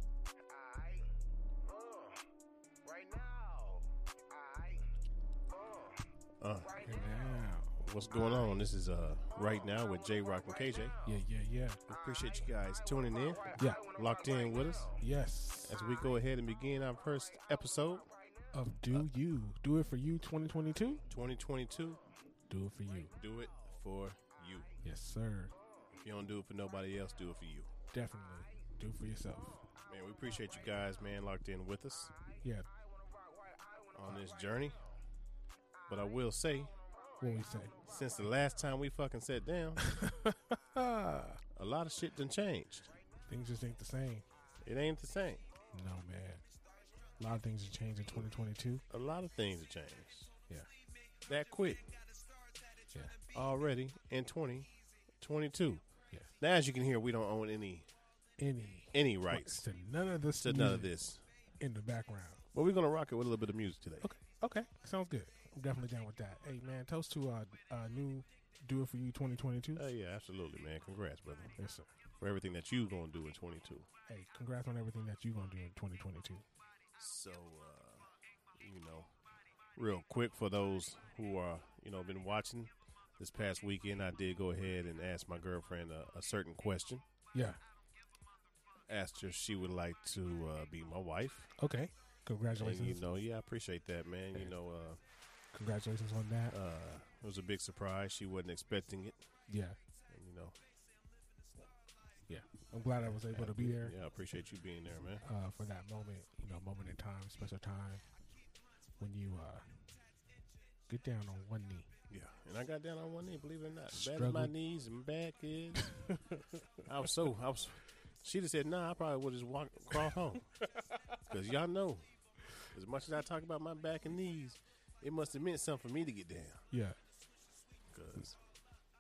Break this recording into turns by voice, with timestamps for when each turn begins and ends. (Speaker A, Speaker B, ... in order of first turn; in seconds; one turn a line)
Speaker A: 0.4-2.3
Speaker A: 2.8-4.9
Speaker A: 5.5-7.5
Speaker B: 6.4-6.8
Speaker C: 6.8-7.8
Speaker B: 7.8-11.0
Speaker A: 9.3-11.2
Speaker C: 11.1-11.8
Speaker B: 11.9-14.9
Speaker A: 11.9-15.0
Speaker C: 13.6-13.8
Speaker C: 15.0-15.8
Speaker B: 15.6-18.1
Speaker A: 15.7-16.2
Speaker A: 17.0-18.5
Speaker C: 18.5-21.0
Speaker B: 21.1-22.0
Speaker C: 22.5-23.1
Speaker B: 23.2-24.7
Speaker C: 24.8-25.5
Speaker A: 25.6-25.9
Speaker B: 25.9-27.7
Speaker C: 27.9-29.6
Speaker B: 29.9-32.1
Speaker A: 32.7-35.0
Speaker B: 34.0-34.8
Speaker A: 35.8-37.5
Speaker B: 35.9-36.7
Speaker C: 37.2-37.7
Speaker B: 37.9-39.8
Speaker C: 39.8-41.4
Speaker B: 41.5-42.9
Speaker C: 43.3-44.2
Speaker B: 44.6-45.5
Speaker C: 45.7-46.4
Speaker C: 47.2-48.8
Speaker B: 48.9-50.3
Speaker B: 51.3-52.0
Speaker B: 53.3-55.8
Speaker B: 56.4-57.9
Speaker C: 58.4-60.9
Speaker B: 58.9-59.6
Speaker B: 60.4-61.2
Speaker C: 61.6-62.4
Speaker B: 62.5-64.1
Speaker C: 64.0-69.8
Speaker B: 69.8-71.6
Speaker C: 71.6-71.9
Speaker B: 72.2-73.9
Speaker C: 74.1-76.4
Speaker B: 77.0-78.1
Speaker B: 78.6-79.1
Speaker B: 79.8-87.0
Speaker C: 87.3-87.6
Speaker B: 88.9-91.5
Speaker C: 91.6-93.0
Speaker B: 92.6-95.0
Speaker C: 95.5-96.6
Speaker B: 96.5-99.2
Speaker C: 99.5-99.8
Speaker B: 100.1-100.6
Speaker C: 102.3-103.9
Speaker B: 103.1-105.2
Speaker C: 105.2-108.0
Speaker C: 109.0-109.6
Speaker C: 110.9-111.9
Speaker B: 112.1-116.0
Speaker C: 113.9-114.5
Speaker C: 115.8-116.8
Speaker B: 116.9-120.5
Speaker B: 121.2-126.7
Speaker C: 126.7-127.0
Speaker B: 127.9-128.4